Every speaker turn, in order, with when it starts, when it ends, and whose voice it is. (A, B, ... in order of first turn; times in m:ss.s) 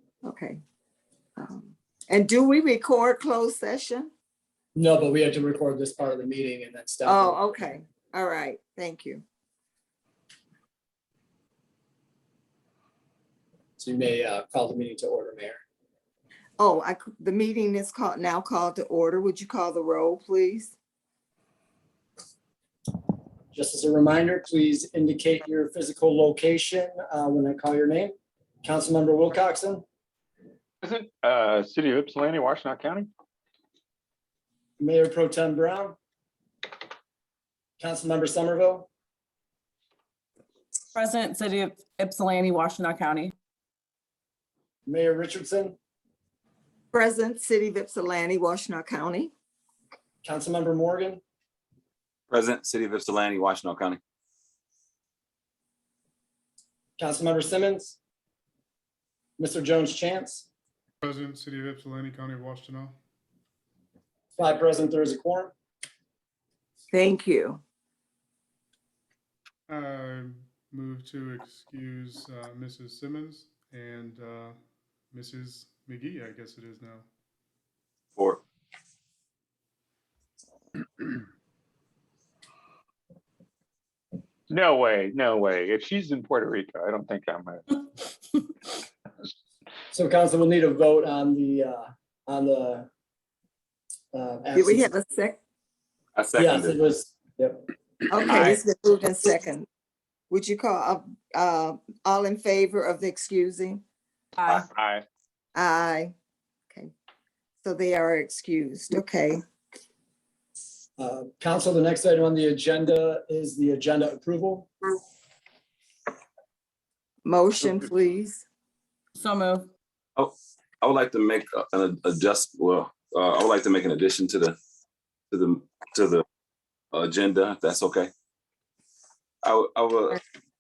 0:00.2-0:00.6 A
0:01.4-0:04.1 A
0:04.8-0:07.4 B
0:07.1-0:09.2 A
0:13.8-0:15.6 B
0:16.6-0:20.7 A
0:23.5-0:29.8 B
0:30.8-0:33.1 C
0:34.8-0:36.0 B
0:37.8-0:38.9 B
0:40.9-0:43.4 D
0:44.9-0:45.8 B
0:46.9-0:49.3 A
0:50.2-0:51.2 B
0:52.3-0:54.0 E
0:57.0-0:58.0 B
0:59.4-1:00.5 B
1:01.0-1:03.0 F
1:04.4-1:05.5 B
1:06.9-1:07.6 A
1:09.7-1:14.6 F
1:15.1-1:17.0 F
1:18.2-1:18.4 E
1:24.5-1:27.8 C
1:29.9-1:32.9 B
1:34.1-1:34.9 B
1:34.6-1:35.4 A
1:36.2-1:36.8 E
1:36.4-1:37.7 B
1:38.1-1:39.7 A
1:38.3-1:38.6 C
1:40.3-1:43.8 A
1:44.4-1:44.6 D
1:44.7-1:45.0 C
1:45.6-1:46.1 A
1:47.6-1:49.4 A
1:51.0-1:54.7 B
1:57.2-1:58.4 A
1:59.2-1:59.7 D
2:00.2-2:04.6 E
2:05.3-2:06.2 E
2:06.9-2:08.1 E
2:09.4-2:10.2 E